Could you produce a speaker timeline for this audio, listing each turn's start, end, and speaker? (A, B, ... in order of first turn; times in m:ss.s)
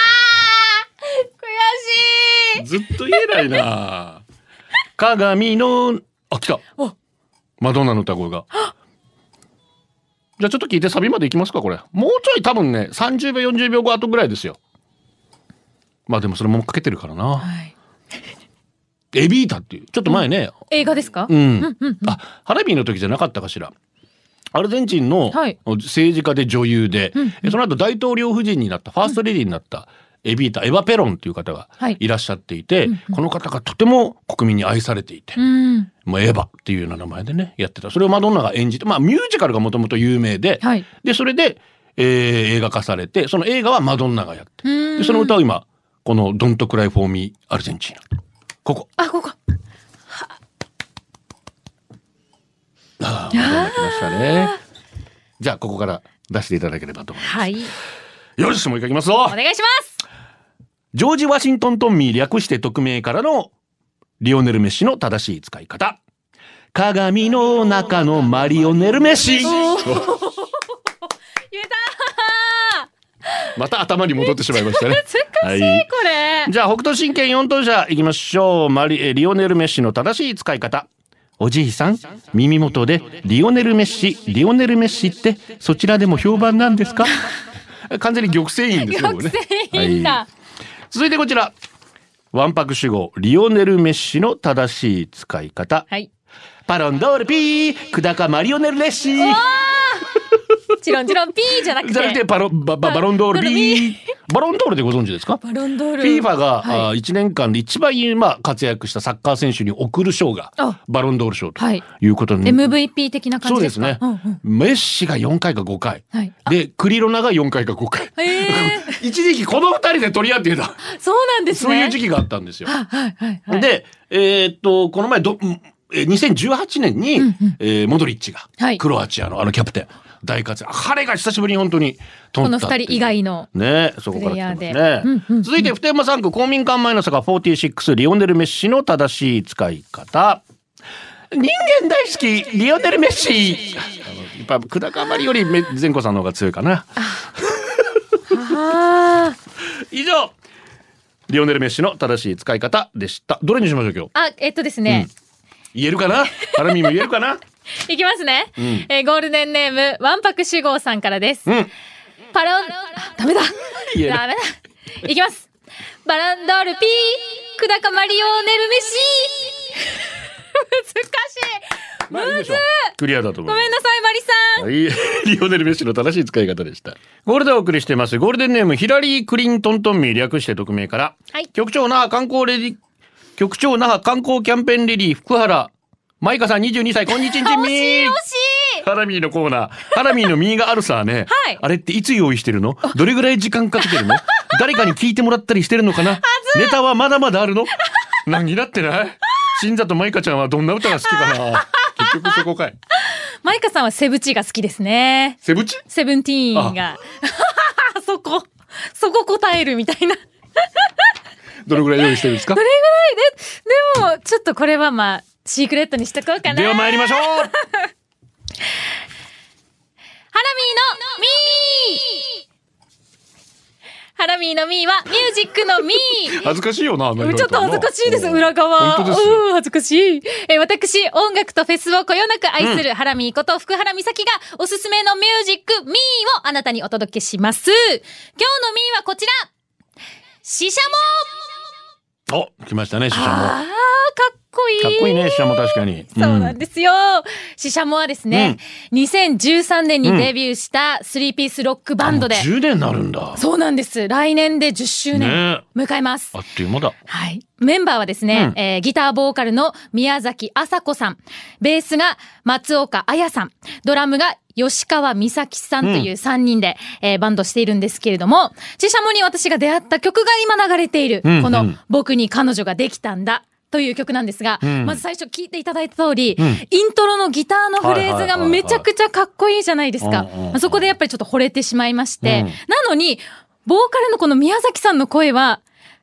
0:01.1-0:03.6 A
0:02.6-0:04.2 B
0:05.0-0:06.6 B
0:07.6-0:08.4 B
0:10.4-0:14.6 B
0:16.1-0:17.5 B
0:17.4-0:17.7 A
0:19.1-0:20.6 B
0:20.1-0:22.2 A
0:21.3-0:23.7 B
0:24.5-0:35.4 B
0:25.3-0:25.6 A
0:27.2-0:27.5 A
0:32.8-0:33.2 A
0:35.4-0:35.9 A
0:36.0-0:48.0 B
0:44.6-0:45.4 A
0:48.6-0:48.9 B
0:49.0-0:49.4 A
0:53.0-0:54.5 B
0:53.3-0:54.6 A
0:55.4-0:57.5 B
0:57.2-0:57.7 A
0:58.4-0:59.4 B
0:59.3-1:00.0 A
1:00.9-1:03.5 B
1:04.2-1:06.0 B
1:06.7-1:10.2 B
1:09.4-1:10.5 A
1:11.5-1:13.5 A
1:13.5-1:15.9 B
1:14.5-1:16.5 A
1:16.4-1:20.9 B
1:21.4-1:27.1 B
1:27.9-1:30.2 B
1:28.8-1:30.3 A
1:30.9-1:31.5 B
1:32.3-1:35.9 B
1:36.6-1:39.4 B
1:39.2-1:40.1 A
1:40.8-1:42.2 A
1:41.8-1:45.4 B
1:42.8-1:44.0 A
1:45.4-1:46.9 A
1:46.0-1:52.8 B
1:51.6-1:51.8 A
1:52.4-1:54.4 A
1:53.4-2:00.8 B
1:58.2-1:59.0 A
2:00.8-2:02.0 A
2:01.5-2:02.7 B
2:02.6-2:03.6 A
2:03.5-2:20.4 B
2:07.2-2:07.6 A
2:12.4-2:13.5 A
2:14.1-2:15.7 A
2:21.3-2:28.0 B
2:28.3-2:29.4 A
2:29.9-2:30.3 B
2:31.3-2:34.1 B
2:34.1-2:35.1 A
2:35.7-2:37.4 B
2:37.8-2:41.5 A
2:38.6-2:38.9 B
2:42.3-2:45.5 A
2:43.8-2:44.2 B
2:46.0-2:50.0 A
2:50.5-2:52.7 A
2:52.1-2:53.7 B
2:53.4-2:54.7 A
2:54.6-3:02.8 B
3:03.4-3:08.2 B
3:07.3-3:08.8 A
3:08.8-3:22.8 B
3:11.3-3:11.6 A
3:16.2-3:16.8 A
3:22.0-3:22.3 A
3:23.4-3:30.9 A
3:25.4-3:25.8 B
3:31.6-3:32.6 B
3:32.4-3:37.9 A
3:36.4-3:37.5 B
3:40.3-3:42.3 A
3:44.2-3:46.5 A
3:46.3-3:49.4 B
3:47.2-3:59.5 A
3:52.6-3:52.8 B
4:00.4-4:01.4 A
4:02.3-4:03.6 B
4:03.1-4:12.5 A
4:04.8-4:06.6 B
4:08.3-4:08.6 B
4:10.0-4:10.3 B
4:12.0-4:13.4 B
4:13.3-4:16.4 A
4:15.1-4:15.6 B
4:16.3-4:16.9 B
4:17.1-4:45.6 A
4:18.3-4:18.6 B
4:25.8-4:26.1 B
4:31.2-4:31.8 B
4:34.6-4:35.0 B
4:36.4-4:36.6 B
4:37.8-4:38.8 B
4:40.0-4:40.9 B
4:42.2-4:42.6 B